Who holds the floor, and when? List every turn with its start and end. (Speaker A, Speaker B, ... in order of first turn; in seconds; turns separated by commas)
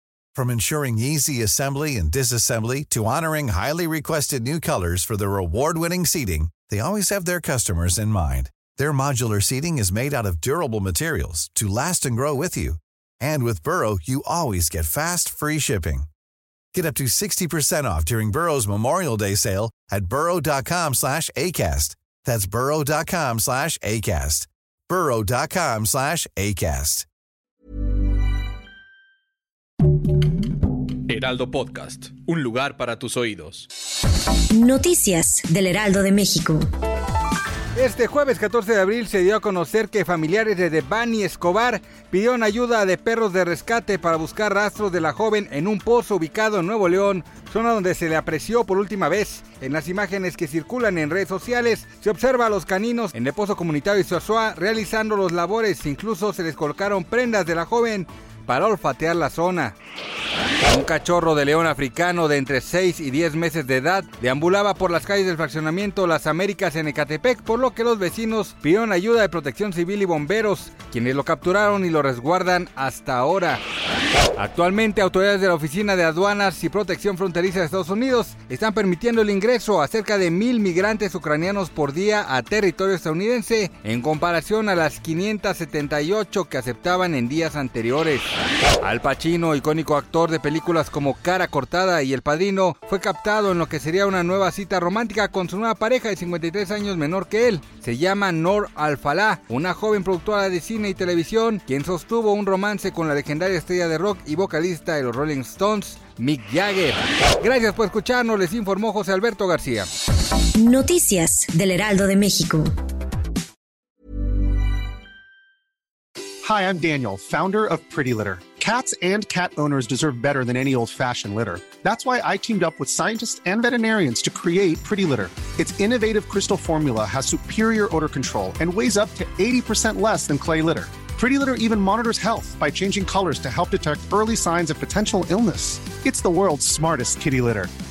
Speaker A: 0.3-16.1, Speaker A: 16.7-27.1, Speaker B: 31.1-33.7, Speaker C: 34.5-36.6, Speaker D: 37.8-59.7, Speaker D: 60.6-73.6, Speaker D: 74.3-109.9, Speaker C: 110.6-112.7, Speaker E: 116.4-137.7